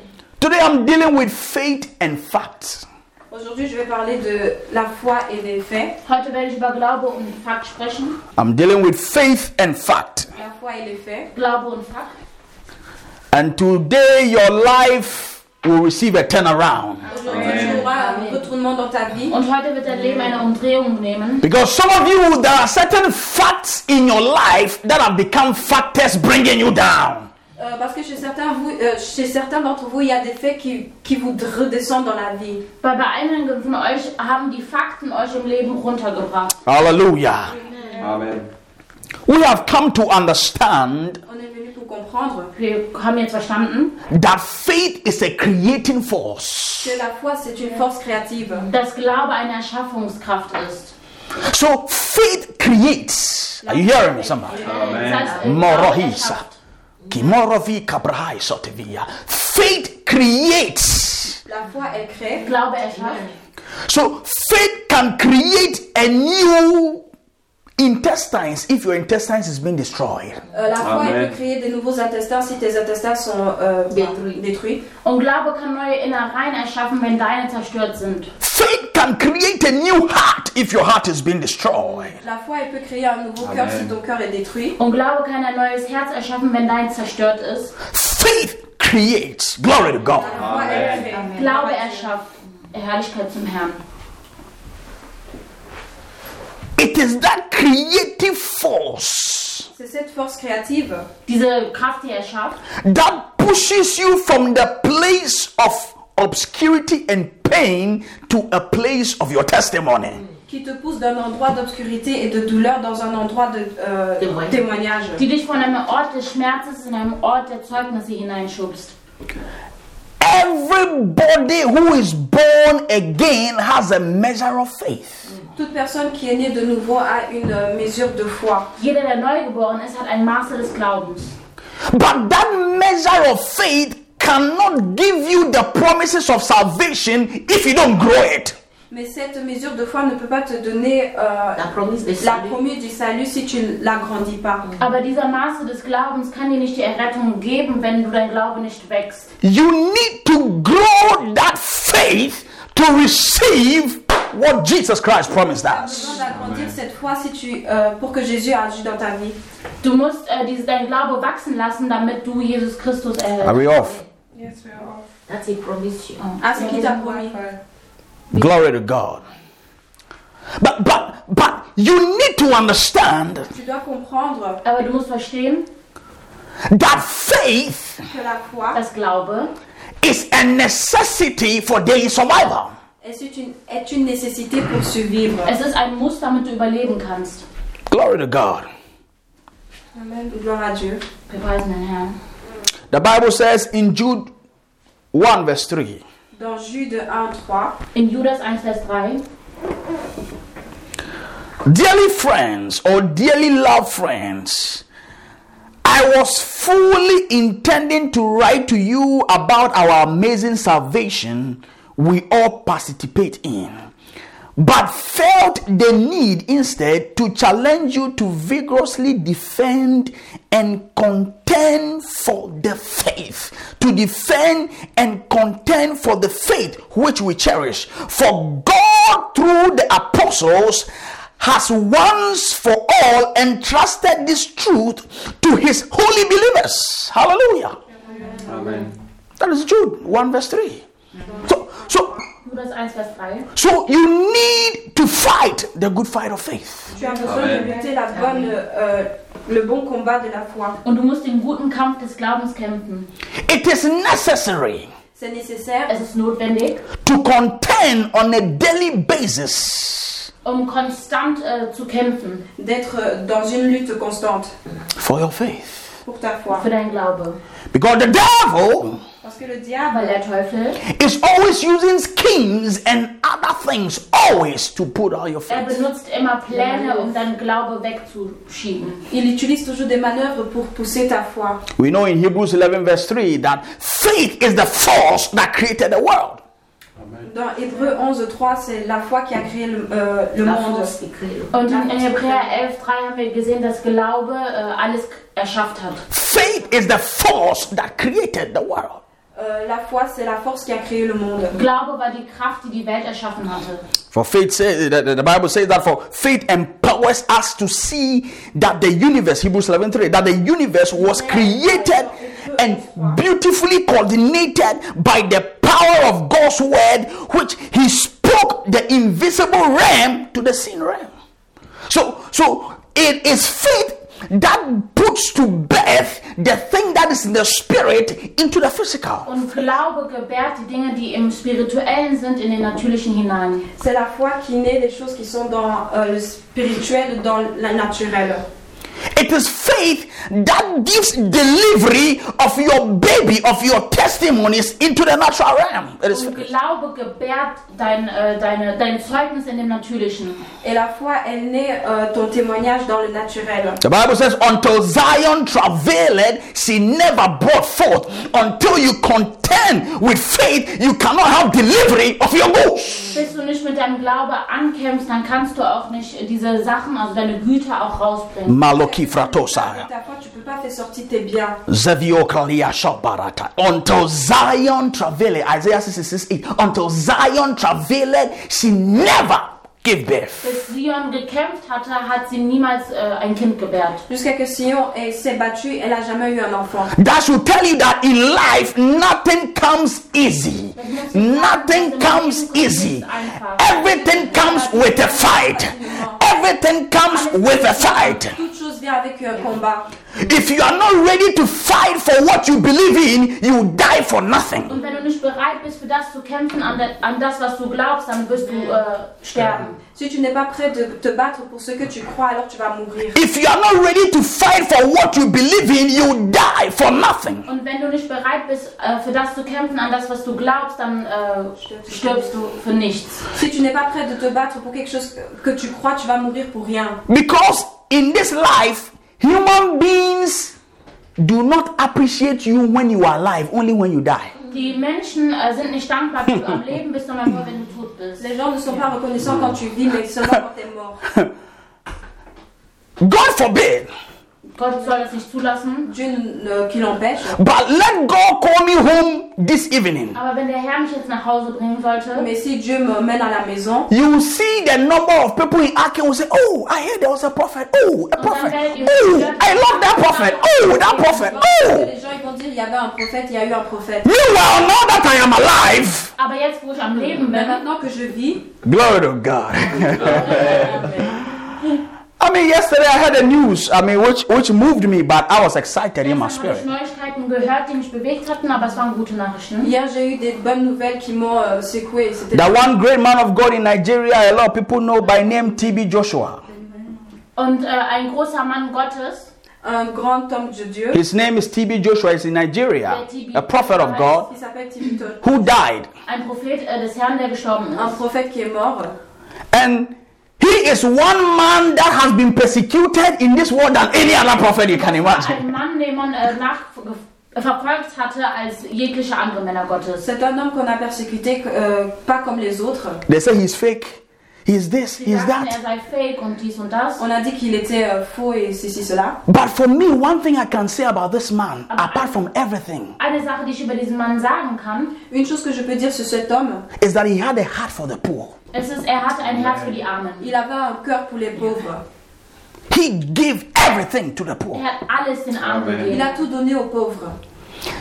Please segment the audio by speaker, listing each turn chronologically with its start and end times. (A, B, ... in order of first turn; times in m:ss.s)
0:00.4-0:02.8 A
0:03.3-0:06.0 B
0:06.0-0:08.2 C
0:08.4-0:10.3 A
0:10.4-0:11.3 B
0:11.3-0:12.2 C
0:13.3-0:17.1 A
0:17.1-0:19.4 B
0:17.2-0:18.5 C
0:17.3-0:17.9 D
0:19.3-0:21.4 C
0:21.4-0:27.3 A
0:27.6-0:32.6 B
0:32.8-0:36.6 C
0:36.6-0:37.6 A
0:37.5-0:38.1 E
0:38.0-0:38.5 D
0:39.3-0:41.2 A
0:41.3-0:42.5 B
0:42.6-0:44.0 C
0:44.1-0:47.0 A
0:46.8-0:48.7 B
0:48.7-0:50.9 C
0:51.4-0:54.6 A
0:53.6-0:55.0 B
0:54.5-0:55.4 E
0:54.6-0:55.4 D
0:54.7-0:56.6 C
0:55.4-0:56.4 A
0:57.1-1:01.4 A
1:01.5-1:02.5 B
1:02.4-1:03.3 C
1:03.0-1:03.3 E
1:03.9-1:07.0 A
1:07.8-1:10.4 A
1:10.5-1:14.8 B
1:10.8-1:11.4 D
1:13.9-1:14.4 E
1:15.0-1:18.3 C
1:18.4-1:22.2 A
1:21.8-1:22.2 E
1:22.2-1:24.8 B
1:23.4-1:23.9 D
1:24.8-1:27.7 C
1:27.8-1:30.6 A
1:30.1-1:32.1 B
1:30.3-1:31.2 D
1:30.9-1:33.8 C
1:36.8-1:39.7 A
1:39.7-1:41.1 B
1:41.3-1:42.6 C
1:42.8-1:50.2 A
1:50.5-1:55.2 B
1:54.2-1:54.6 E
1:55.2-1:58.9 C
2:00.2-2:05.3 A
2:05.6-2:08.7 B
2:08.8-2:11.4 C
2:11.9-2:18.6 A
2:18.9-2:24.7 B
2:21.6-2:22.6 E
2:24.8-2:29.3 C
2:29.4-2:36.2 A
2:35.6-2:39.4 B
2:36.2-2:36.8 D
2:39.8-2:43.6 C
2:43.4-2:44.0 A
2:43.8-2:44.0 E
2:44.4-2:45.0 B
2:45.3-2:46.2 E
2:46.2-2:47.4 C
2:46.4-2:47.6 B
2:48.3-2:49.2 A
2:50.6-2:53.5 A
2:53.5-2:54.6 B
2:54.6-2:55.7 C
2:56.7-2:58.0 A
2:58.1-2:58.8 B
2:58.7-2:59.5 C
3:00.0-3:02.8 A
3:03.0-3:05.6 B
3:05.4-3:07.4 C
3:07.9-3:08.7 A
3:09.9-3:11.0 B
3:11.3-3:12.2 C
3:12.9-3:14.3 A
3:15.1-3:16.0 A
3:16.3-3:17.8 B
3:17.9-3:19.2 C
3:21.6-3:24.8 A
3:25.8-3:33.8 A
3:34.6-3:57.8 A
3:58.3-3:58.8 C
3:58.5-3:58.9 D
3:59.4-4:00.8 A
4:01.4-4:02.1 A
4:02.4-4:03.5 C
4:03.6-4:06.9 A
4:06.9-4:10.8 B
4:07.0-4:07.5 C
4:07.2-4:07.7 D
4:07.2-4:07.8 E
4:10.8-4:13.1 C
4:13.4-4:14.9 A
4:15.2-4:16.0 B
4:15.9-4:16.8 C
4:17.0-4:20.3 A
4:20.4-4:22.4 C
4:22.6-4:24.5 B
4:24.9-4:25.9 A
4:26.0-4:26.7 B
4:26.5-4:27.4 C
4:27.7-4:29.0 A
4:29.2-4:30.2 B
4:29.9-4:30.8 C
4:30.8-4:35.8 A
4:35.5-4:39.1 C
4:36.5-4:37.2 B
4:39.1-4:41.6 B
4:41.8-4:46.4 A
4:47.2-4:50.9 B
4:50.4-4:51.6 E
4:51.5-4:56.1 C
4:51.7-4:52.6 B
4:56.1-4:59.0 A
4:59.3-5:01.6 B
5:01.5-5:03.8 C
5:04.1-5:21.1 A
5:10.9-5:11.9 C
5:11.3-5:13.2 B
5:21.9-5:29.6 A
5:29.2-5:33.7 C
5:33.8-5:38.4 B
5:39.1-5:46.5 A
5:46.1-5:50.4 C
5:50.6-5:53.8 B
5:53.8-6:03.2 A
6:03.1-6:08.6 C
6:08.4-6:09.9 A
6:08.7-6:11.6 B
6:11.7-6:20.5 A
6:20.4-6:24.0 C
6:24.1-6:26.9 B
6:26.9-6:38.4 A
6:30.8-6:34.4 C
6:34.0-6:36.2 B
6:37.1-6:38.2 C
6:38.2-6:39.9 B
6:40.2-6:44.8 A
6:44.7-6:49.8 C
6:48.5-6:48.8 B
6:49.9-6:53.2 B
6:53.1-6:57.5 A
6:57.4-7:03.3 C
7:01.6-7:02.3 B
7:03.3-7:07.0 B
7:07.1-7:10.5 A
7:11.2-7:14.3 A
7:14.4-7:18.3 C
7:18.2-7:21.0 B
7:23.0-7:23.9 A
7:24.6-7:25.9 C
7:25.9-7:27.4 B
7:27.3-7:30.2 A
7:30.1-7:32.3 C
7:32.2-7:33.9 B
7:33.9-7:41.9 A
7:38.2-7:41.3 C
7:40.8-7:44.1 B
7:44.0-7:46.1 A
7:46.2-7:47.6 C
7:47.0-7:48.5 B
7:48.6-7:51.3 A
7:49.7-7:51.2 C
7:49.9-7:50.8 B
7:50.1-7:50.8 D
7:52.2-7:56.7 A
7:56.0-7:59.7 C
7:59.6-8:02.7 B
8:02.3-8:06.4 A
8:07.4-8:09.3 C
8:09.6-8:11.0 B
8:10.9-8:14.3 A
8:12.9-8:14.2 C
8:14.1-8:15.3 B
8:15.2-8:15.9 A
8:16.1-8:18.0 C
8:17.8-8:19.0 B
8:19.5-8:25.5 A
8:24.7-8:30.1 C
8:30.0-8:33.0 B
8:33.1-8:35.6 A
8:35.0-8:37.0 C
8:37.0-8:39.2 B
8:39.3-8:43.0 A
8:41.7-8:42.2 C
8:43.0-8:44.9 C
8:45.1-8:46.6 B
8:46.8-8:48.4 A
8:48.5-8:50.3 C
8:49.2-8:49.8 D
8:50.2-8:51.8 B
8:52.7-8:54.6 A
8:54.5-8:56.2 C
8:55.4-8:55.9 D
8:55.8-8:57.2 B